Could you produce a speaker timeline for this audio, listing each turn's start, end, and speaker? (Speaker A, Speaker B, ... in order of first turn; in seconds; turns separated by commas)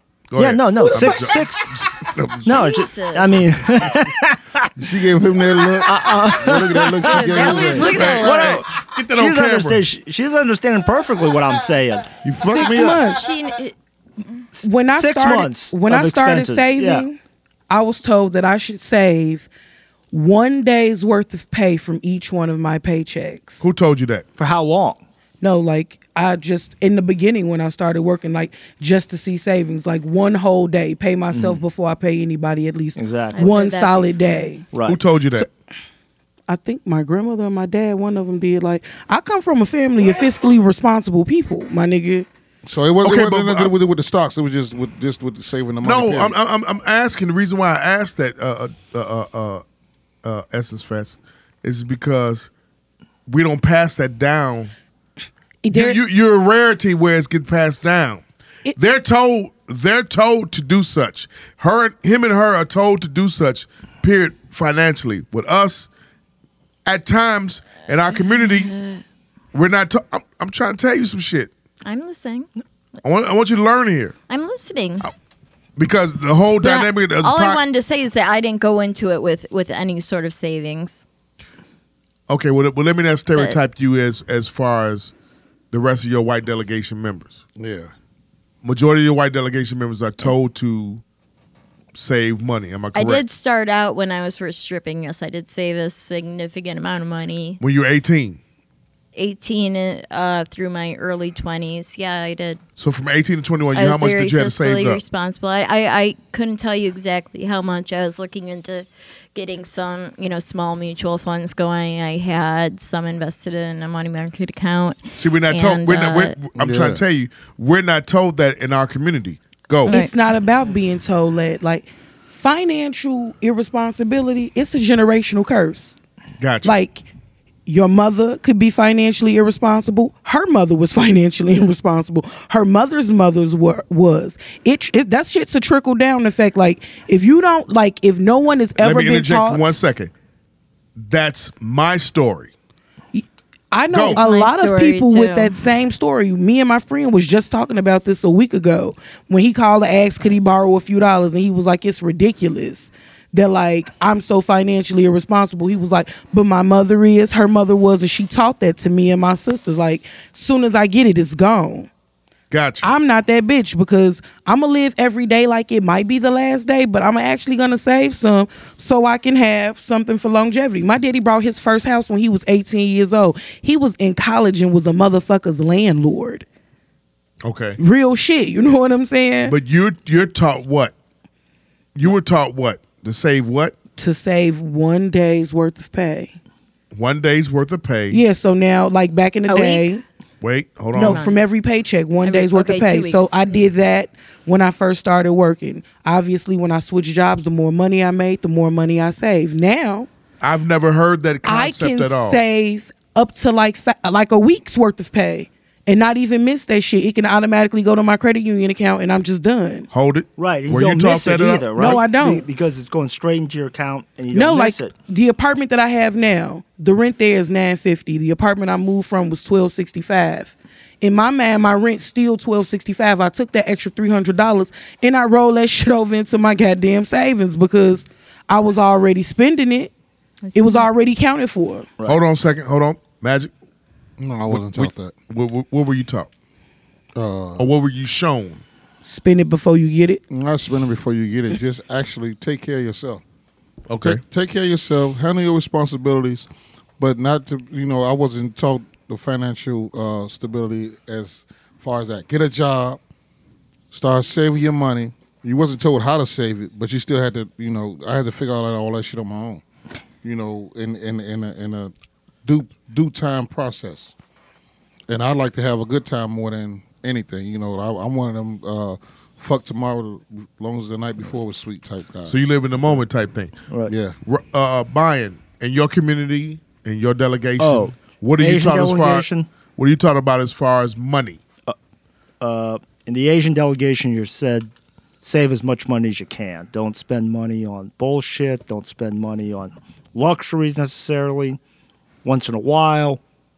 Speaker A: 0.3-2.7, Speaker B: 0.4-1.7, Speaker B: 2.4-4.7, Speaker C: 2.5-3.4, Speaker D: 4.8-7.9, Speaker B: 5.8-12.1, Speaker C: 7.0-8.6, Speaker A: 7.9-9.9, Speaker D: 12.2-13.0, Speaker E: 12.5-13.2, Speaker C: 12.6-13.7, Speaker E: 14.6-17.2, Speaker B: 14.8-17.1, Speaker E: 17.7-19.5, Speaker E: 20.1-23.6, Speaker A: 23.6-24.2, Speaker B: 24.4-25.0, Speaker E: 25.4-34.6, Speaker B: 31.3-31.6, Speaker B: 33.0-33.5, Speaker C: 33.3-34.3, Speaker B: 34.7-35.0, Speaker A: 34.9-35.5, Speaker E: 36.5-42.3, Speaker D: 42.6-46.4, Speaker A: 43.0-43.7, Speaker A: 45.8-49.6, Speaker A: 50.2-52.5, Speaker A: 53.3-54.7, Speaker E: 55.6-56.0, Speaker A: 55.7-58.2, Speaker A: 58.7-65.9, Speaker A: 66.8-68.7, Speaker C: 68.3-69.0, Speaker A: 69.5-71.5, Speaker C: 71.8-72.5, Speaker A: 73.0-74.2, Speaker C: 74.3-75.1, Speaker A: 75.8-77.6, Speaker C: 76.6-81.0, Speaker A: 82.3-85.1, Speaker A: 85.7-87.4, Speaker D: 87.5-87.9, Speaker A: 88.6-91.0, Speaker A: 91.9-93.2, Speaker C: 92.9-97.6, Speaker A: 97.6-98.4, Speaker C: 99.1-102.6, Speaker A: 102.8-105.0, Speaker C: 103.7-116.3, Speaker A: 115.1-120.0, Speaker D: 116.5-117.0, Speaker E: 119.8-125.9, Speaker C: 119.9-120.1, Speaker A: 126.4-126.8, Speaker E: 126.6-127.1, Speaker E: 127.7-139.8, Speaker A: 138.8-140.1, Speaker A: 141.0-142.5, Speaker E: 143.1-161.9, Speaker A: 143.9-144.2, Speaker C: 144.1-145.5, Speaker A: 162.5-162.9, Speaker E: 162.8-176.4, Speaker A: 177.4-177.8, Speaker E: 177.8-179.5, Speaker A: 179.4-180.9, Speaker A: 181.9-183.7, Speaker E: 184.0-186.3, Speaker A: 186.9-188.2, Speaker E: 188.1-190.0, Speaker C: 189.5-189.9, Speaker A: 190.4-191.2, Speaker E: 190.9-200.1, Speaker C: 191.0-191.4, Speaker C: 192.2-193.3, Speaker A: 200.4-202.4, Speaker E: 201.4-209.9, Speaker A: 209.9-212.0, Speaker B: 210.4-214.9, Speaker E: 211.8-212.4, Speaker E: 214.3-229.9, Speaker C: 230.4-230.9, Speaker E: 230.5-231.9, Speaker A: 232.0-233.5, Speaker D: 234.2-235.1, Speaker A: 234.5-236.3, Speaker D: 237.1-237.7, Speaker A: 237.6-238.6, Speaker E: 239.0-240.2, Speaker D: 240.3-243.2, Speaker A: 243.9-244.2, Speaker D: 244.0-246.5, Speaker D: 247.0-253.0, Speaker D: 253.9-259.6, Speaker D: 260.2-261.9, Speaker D: 262.4-264.1, Speaker D: 265.1-272.4, Speaker A: 272.3-273.6, Speaker D: 273.9-274.1, Speaker A: 274.2-281.4, Speaker B: 277.6-279.5, Speaker B: 282.4-284.7, Speaker B: 285.2-291.6, Speaker B: 292.2-293.2